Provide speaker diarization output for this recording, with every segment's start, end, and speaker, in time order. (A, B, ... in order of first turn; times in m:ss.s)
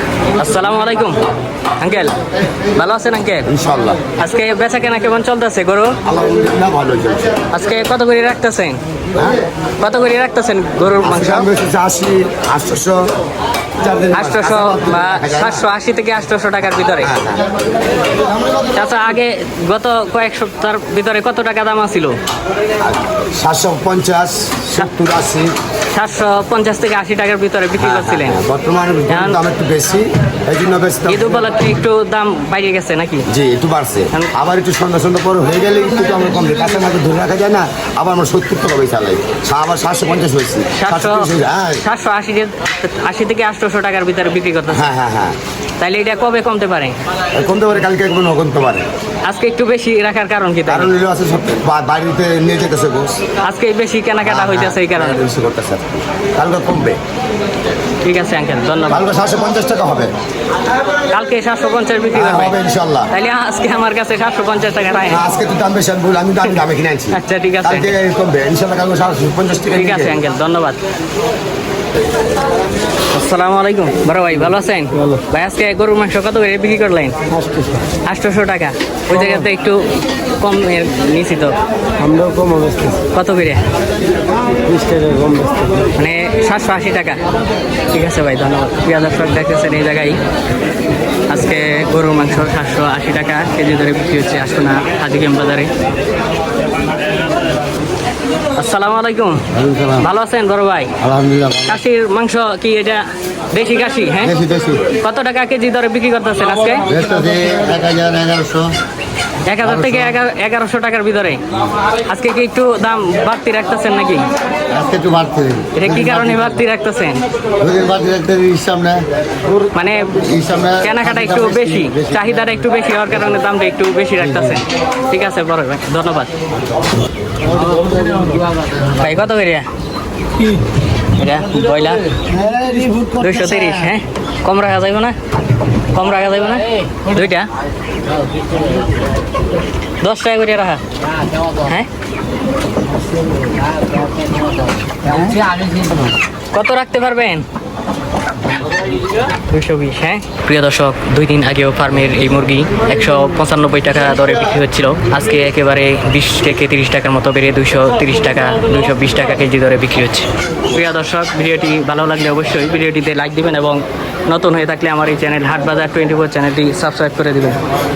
0:00.4-0:01.2 A
0:01.8-0:02.1 A
0:02.7-0:03.5 A
0:03.5-0:04.0 B
0:04.2-0:06.0 A
0:06.0-0:07.4 B
0:07.5-0:08.8 A
0:09.2-0:09.4 B
0:09.8-0:11.5 A
0:11.0-0:13.0 B
0:13.8-0:15.6 B
0:14.1-0:17.1 A
0:17.0-0:17.5 B
0:18.7-0:22.2 A
0:22.8-0:25.5 B
0:25.9-0:28.4 A
0:27.8-0:31.3 B
0:29.1-0:29.4 A
0:31.1-0:33.2 A
0:33.3-0:41.8 B
0:40.7-0:44.9 A
0:44.7-0:45.4 B
0:45.8-0:46.9 A
0:47.3-0:48.9 B
0:49.2-0:50.9 A
0:50.7-0:53.2 B
0:53.4-0:55.2 A
0:54.2-0:55.8 B
0:56.4-0:57.0 B
0:58.0-0:59.1 A
0:58.9-1:00.1 B
1:01.1-1:02.6 A
1:02.1-1:03.1 B
1:03.1-1:05.2 A
1:05.1-1:10.2 B
1:06.4-1:07.9 A
1:09.7-1:10.8 A
1:13.1-1:17.2 A
1:17.4-1:17.8 C
1:18.0-1:19.9 A
1:20.4-1:21.6 A
1:22.0-1:23.0 C
1:23.1-1:23.6 A
1:24.6-1:25.9 C
1:25.9-1:27.2 A
1:27.9-1:30.2 A
1:31.3-1:35.7 A
1:38.6-1:39.4 A
1:39.5-1:40.1 B
1:40.0-1:40.9 A
1:41.0-1:41.8 B
1:41.6-1:44.4 A
1:44.2-1:44.9 B
1:45.0-1:46.9 A
1:46.9-1:48.7 B
1:49.4-1:51.4 A
1:49.6-1:50.1 B
1:52.0-1:54.2 A
1:54.7-1:56.6 B
1:55.7-1:57.2 A
1:57.6-2:02.6 B
1:59.7-2:00.1 A
2:00.8-2:06.3 A
2:07.6-2:08.7 C
2:08.8-2:09.7 A
2:11.2-2:12.1 A
2:12.4-2:13.0 B
2:12.5-2:13.1 C
2:13.1-2:15.2 A
2:15.9-2:17.5 A
2:20.0-2:20.8 A
2:21.2-2:21.5 C
2:21.6-2:21.9 A
2:23.6-2:24.6 C
2:25.1-2:25.3 A
2:25.2-2:26.1 C
2:26.5-2:27.4 A
2:29.5-2:47.6 A